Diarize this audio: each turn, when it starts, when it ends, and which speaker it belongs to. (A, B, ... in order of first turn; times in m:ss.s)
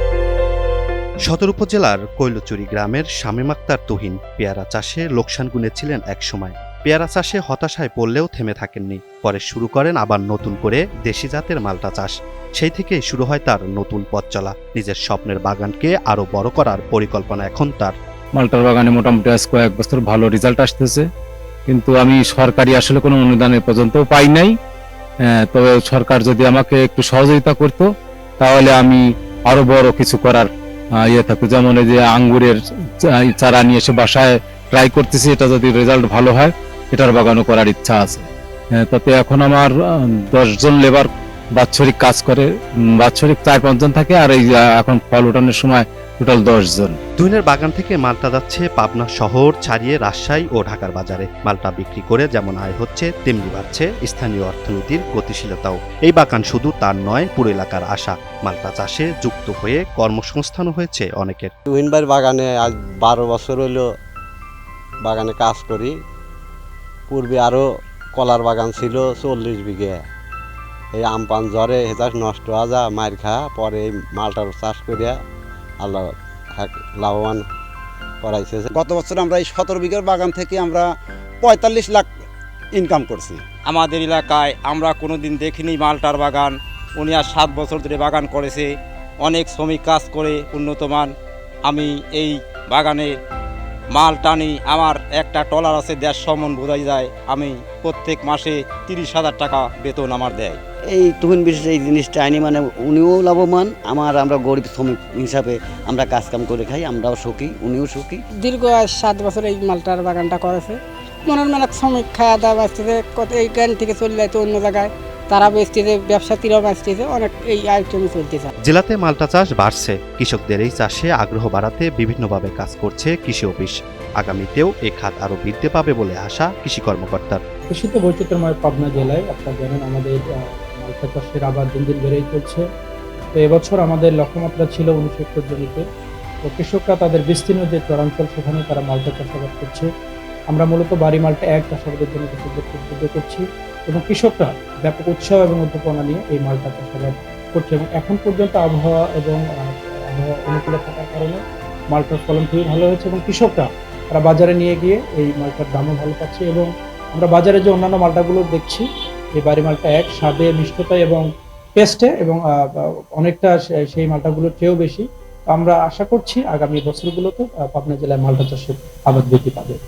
0:01.3-0:18.0 A
0:18.4-0:21.1 B
0:21.7-0:24.5 B
0:25.2-0:39.8 B
0:40.3-0:47.0 B
0:47.2-1:01.5 A
1:01.7-1:03.8 C
1:05.0-1:05.9 C
1:07.1-1:07.6 C
1:08.2-1:10.0 C
1:10.9-1:15.2 C
1:15.8-1:17.4 C
1:18.2-1:18.7 C
1:18.7-1:23.4 D
1:23.7-1:28.7 E
1:29.2-1:31.1 E
1:31.6-1:33.1 E
1:33.9-1:40.6 E
1:40.9-1:48.2 F
1:48.4-1:58.5 G
1:58.6-2:07.4 A
2:07.7-2:12.6 H
2:13.3-2:15.8 H
2:16.4-2:19.9 H
2:20.5-2:49.8 H